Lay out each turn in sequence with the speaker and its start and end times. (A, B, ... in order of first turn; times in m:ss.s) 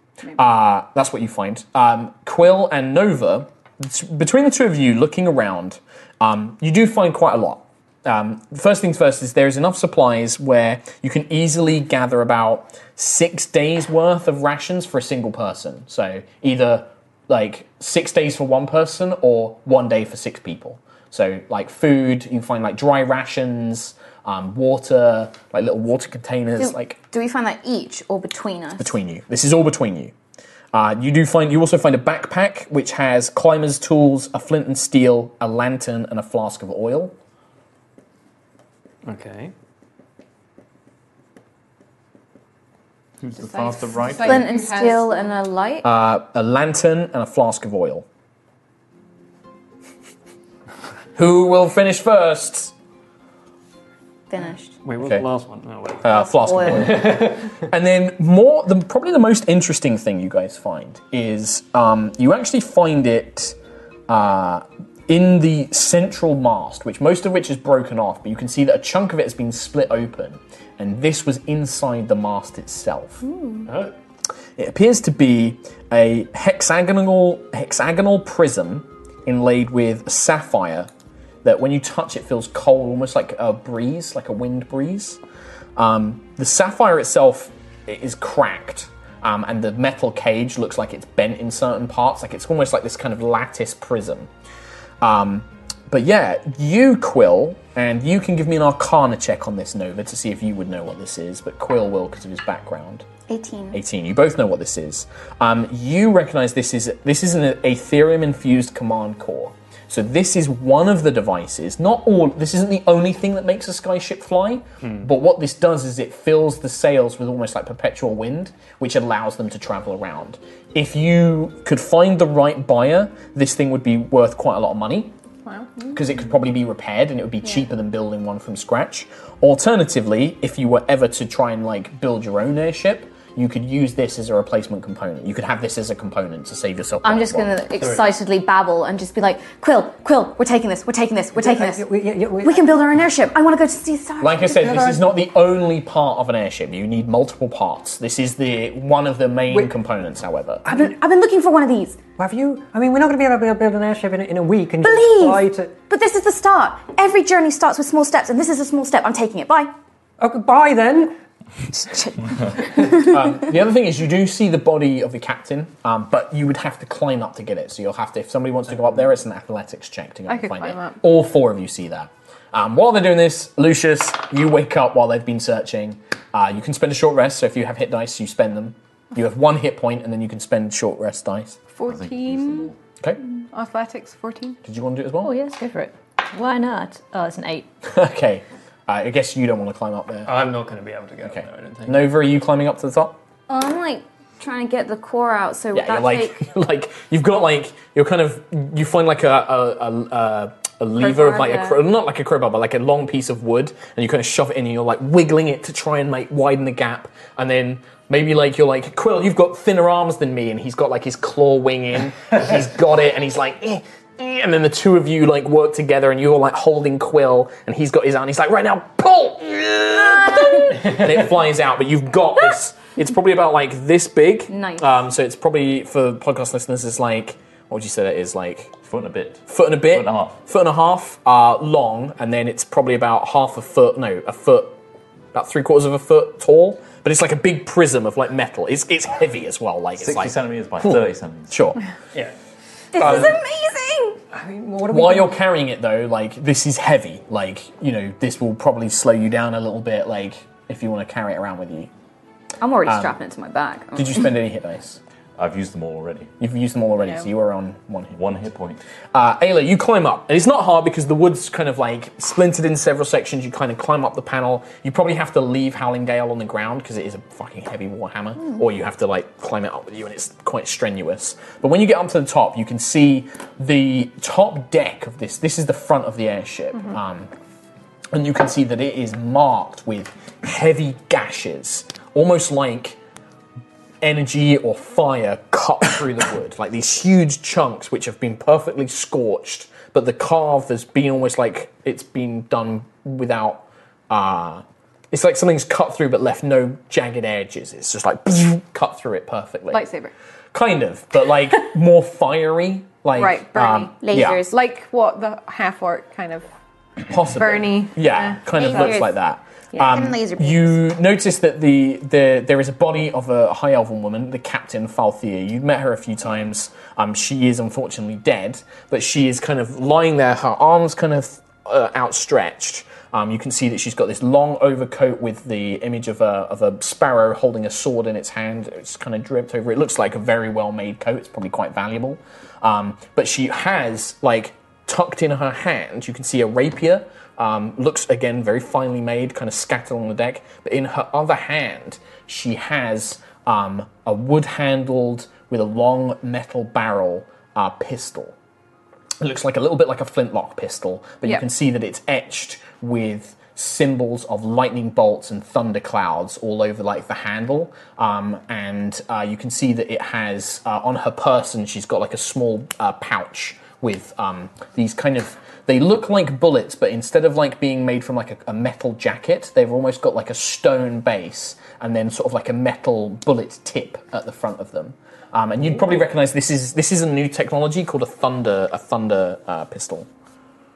0:00.3-0:27.0 A
0:26.6-0:28.9 B
0:28.8-0:30.1 A
0:30.7-0:37.2 A
0:39.0-0:39.5 C
0:43.2-0:44.5 D
0:43.3-0:45.3 E
0:44.2-0:45.9 B
0:45.8-0:48.0 A
0:51.2-0:52.7 A
0:54.3-0:54.8 B
0:54.8-0:57.6 C
0:55.0-0:55.2 A
0:56.0-1:03.6 A
0:56.0-0:57.0 B
1:04.1-1:13.2 A
1:13.3-1:13.6 E
1:13.6-1:13.9 C
1:14.6-1:20.9 A
1:21.4-1:25.2 A
1:25.8-1:34.3 A
1:35.0-1:43.0 A
1:43.3-1:43.8 B
1:43.7-2:05.1 A
1:54.8-1:55.1 C
2:05.4-2:06.0 E
2:05.9-2:17.6 A
2:17.0-2:24.9 B
2:17.8-2:18.1 C
2:21.4-2:22.7 C
2:24.2-2:30.6 A
2:30.6-2:30.9 C
2:30.7-2:32.0 B
2:32.2-2:35.8 C
2:34.8-2:39.7 B
2:40.2-2:41.2 C
2:41.7-2:43.1 B
2:42.8-3:01.6 A
2:50.3-2:51.0 E
3:01.7-3:02.7 E
3:01.8-3:02.8 D
3:03.5-3:04.6 E
3:04.6-3:05.3 A
3:05.2-3:07.7 F
3:07.8-3:10.3 A
3:10.2-3:12.1 C
3:11.2-3:13.2 A
3:13.5-3:16.4 B
3:15.7-3:48.7 A
3:21.0-3:21.8 B
3:44.5-3:45.0 B
3:48.8-3:50.4 D
3:49.5-3:54.8 A
3:55.3-4:01.8 A
4:00.0-4:01.6 D
4:02.9-4:04.2 B
4:03.0-4:03.4 A
4:04.3-4:05.4 C
4:04.9-4:11.9 A
4:12.6-4:14.3 B
4:12.8-4:13.1 A
4:13.9-4:15.0 A
4:15.4-4:16.3 D
4:16.4-4:18.2 A
4:18.1-4:18.8 D
4:19.1-4:37.3 A
4:38.1-4:43.0 A
4:44.0-4:59.8 A
4:59.7-5:00.1 E
5:00.5-5:04.4 A
5:03.1-5:04.0 E
5:04.0-5:04.6 B
5:04.5-5:06.5 E
5:07.1-5:48.4 A
5:07.2-5:09.0 E
5:08.6-5:09.1 B
5:09.7-5:10.0 E
5:09.8-5:10.8 B
5:49.2-6:20.1 A